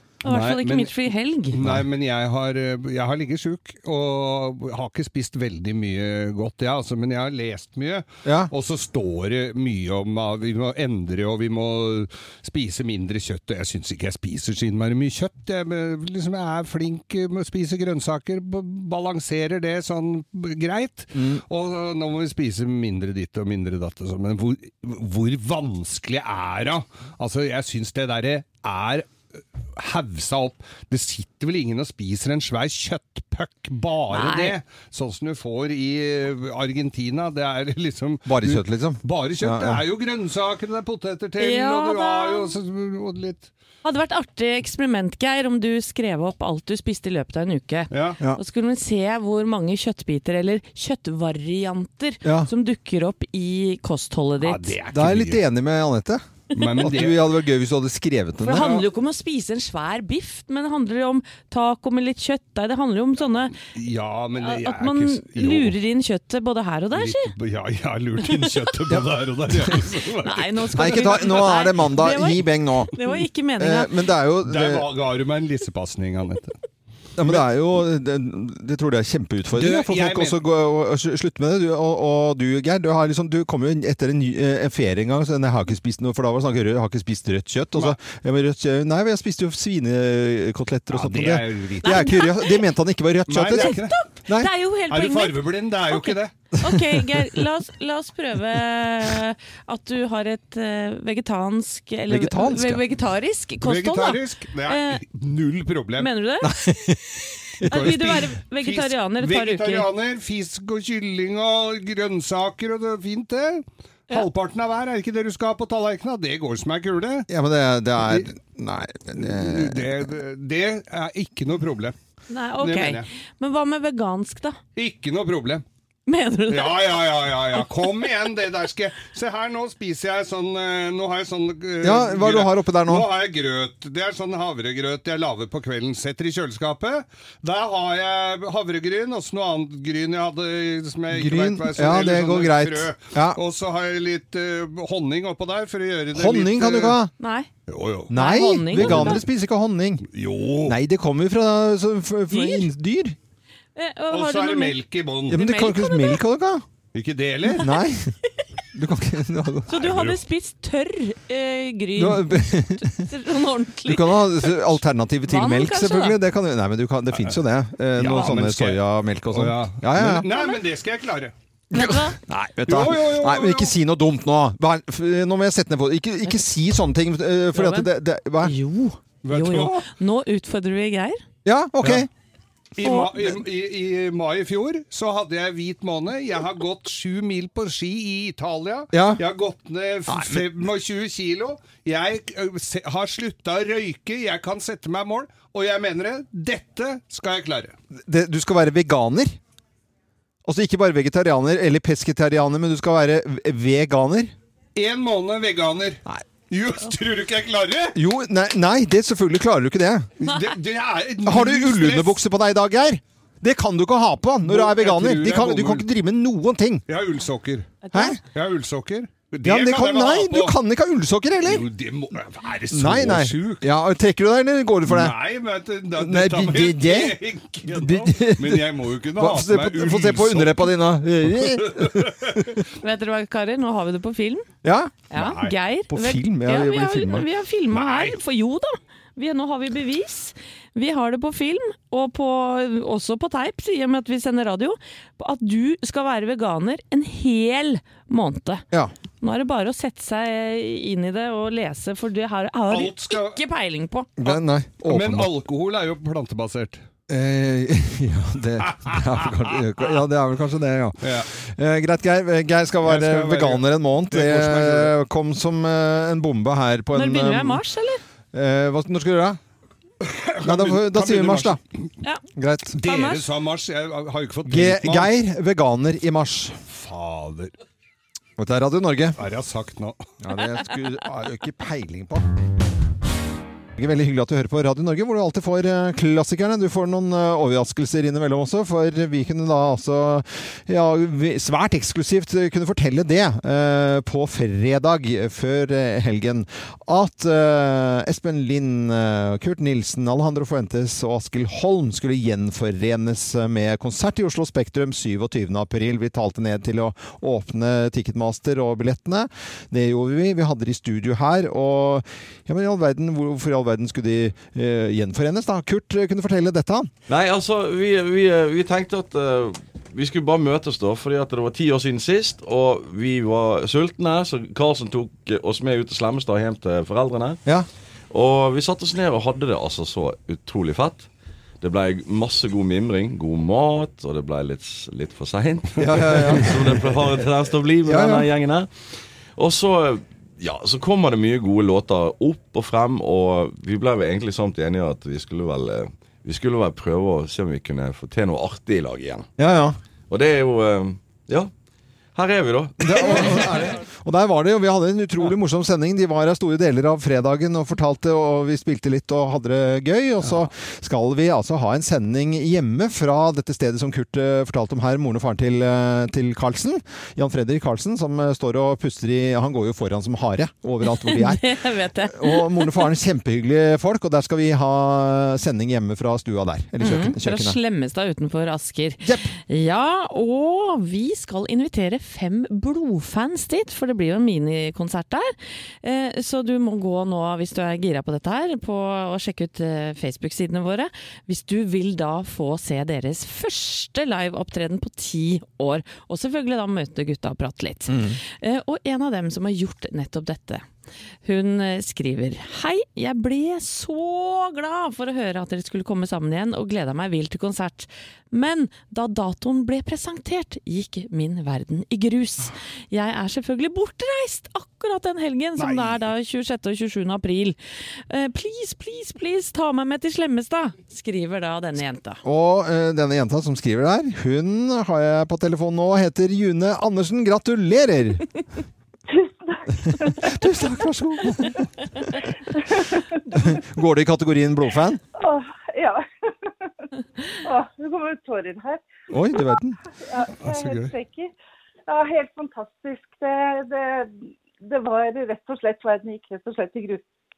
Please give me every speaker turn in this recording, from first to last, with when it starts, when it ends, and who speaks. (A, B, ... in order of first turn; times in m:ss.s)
0:00.2-0:01.6 A
0:00.2-0:00.9 B
0:01.5-0:29.1 B
0:01.6-0:01.8 C
0:08.2-0:08.5 C
0:21.1-0:21.4 C
0:29.8-0:43.5 B
0:34.1-0:34.6 A
0:38.2-0:39.8 C
0:41.4-0:42.5 A
0:43.8-0:54.7 A
0:47.9-0:48.2 B
0:52.2-0:52.5 C
0:54.4-0:55.4 B
0:54.9-0:58.8 C
0:56.5-0:57.2 B
0:58.4-1:03.5 A
0:58.6-0:58.8 B
1:03.7-1:05.7 B
1:04.4-1:07.3 A
1:06.9-1:11.4 B
1:08.9-1:09.7 C
1:10.2-1:13.9 A
1:10.7-1:12.9 C
1:13.6-1:14.9 C
1:14.4-1:16.5 B
1:17.2-1:34.5 C
1:19.5-1:20.4 B
1:30.9-1:32.1 B
1:31.8-1:32.6 A
1:33.3-1:34.0 B
1:33.5-1:45.0 A
1:34.9-1:36.3 B
1:36.6-1:37.0 C
1:42.1-1:42.8 C
1:43.6-1:46.1 B
1:46.0-1:46.6 A
1:46.4-1:48.1 C
1:47.7-1:49.8 A
1:47.7-1:57.3 B
1:57.3-2:00.0 C
1:59.2-2:01.9 B
2:02.3-2:04.6 A
2:02.6-2:03.0 B
2:04.8-2:05.6 B
2:06.1-2:07.0 A
2:06.5-2:27.0 B
2:11.8-2:13.1 C
2:21.1-2:23.4 C
2:26.1-2:27.1 C
2:27.2-2:27.5 A
2:27.7-2:28.1 B
2:28.1-2:30.1 C
2:28.1-2:29.2 A
2:28.7-2:29.2 B
2:30.1-2:30.8 B
2:30.6-2:33.2 C
2:32.3-2:32.7 A
2:33.8-2:34.8 A
2:34.1-2:35.4 B
2:35.3-2:36.6 C
2:35.3-2:36.2 A
2:36.9-2:37.8 B
2:37.5-2:38.1 C
2:38.7-2:39.7 C
2:39.7-2:46.2 A
2:39.7-2:40.2 B
2:42.0-2:43.1 C
2:43.8-2:50.3 C
2:48.0-2:51.3 B
2:50.3-2:50.6 A
2:51.7-2:58.5 C
2:51.7-2:52.2 A
2:52.6-2:53.7 B
2:57.5-2:57.9 A
2:58.4-3:01.2 A
2:59.2-2:59.8 B
3:01.4-3:02.1 C
3:01.8-3:02.1 B
3:02.8-3:17.7 B
3:02.8-3:03.3 A
3:08.9-3:09.2 C
3:10.1-3:10.5 C
3:18.1-3:19.4 C
3:20.4-3:24.3 C
3:24.8-3:28.0 B
3:27.9-3:30.1 C
3:30.2-3:32.2 B
3:31.2-3:36.8 C
3:34.4-3:35.8 B
3:36.9-3:40.5 B
3:37.9-3:38.1 A
3:37.9-3:38.2 C
3:39.4-3:41.6 C
3:41.4-3:43.7 B
3:42.7-3:45.2 C
3:44.8-3:50.7 B
3:46.0-3:52.6 C
3:51.3-3:52.4 B
3:52.8-3:54.5 A
3:54.6-3:55.0 C
3:55.1-4:08.6 A
3:55.1-3:55.5 B
3:55.9-3:57.3 C
3:57.7-3:58.2 B
4:09.2-4:14.1 A
4:12.7-4:13.4 B
4:14.2-4:15.3 C
4:14.9-4:16.8 B
4:17.1-4:27.6 C
4:21.0-4:21.3 B
4:22.8-4:24.9 B
4:26.9-4:28.0 A
4:28.3-4:29.4 C
4:30.0-4:31.6 B
4:30.4-4:31.6 C
4:32.4-4:32.8 C
4:32.8-4:35.1 B
4:32.8-4:33.2 A
4:34.4-4:36.6 C
4:36.7-4:37.5 B
4:38.4-4:39.2 C
4:39.2-4:40.0 B
4:40.2-4:42.2 C
4:43.8-5:16.9 C
5:17.1-5:27.4 D
5:28.1-5:31.1 D
5:31.6-5:38.7 D
5:35.8-5:36.9 C
5:37.8-5:38.3 C
5:39.4-5:49.3 D
5:49.4-5:49.8 C
5:50.1-5:51.5 D
5:52.1-5:53.4 D
5:52.8-6:17.6 C
6:10.8-6:12.9 A
6:16.8-6:40.6 A
6:19.0-6:19.3 C
6:37.9-6:38.2 C
6:41.2-6:57.6 A
6:55.6-6:56.0 B
6:58.1-7:02.2 A
7:02.2-7:08.2 C
7:09.1-7:10.3 E
7:09.8-7:12.2 C
7:12.5-7:13.0 E
7:13.3-7:15.0 C
7:15.2-7:18.8 E
7:19.1-7:19.8 C
7:20.0-7:21.3 E
7:20.4-7:20.9 B
7:21.9-7:27.0 E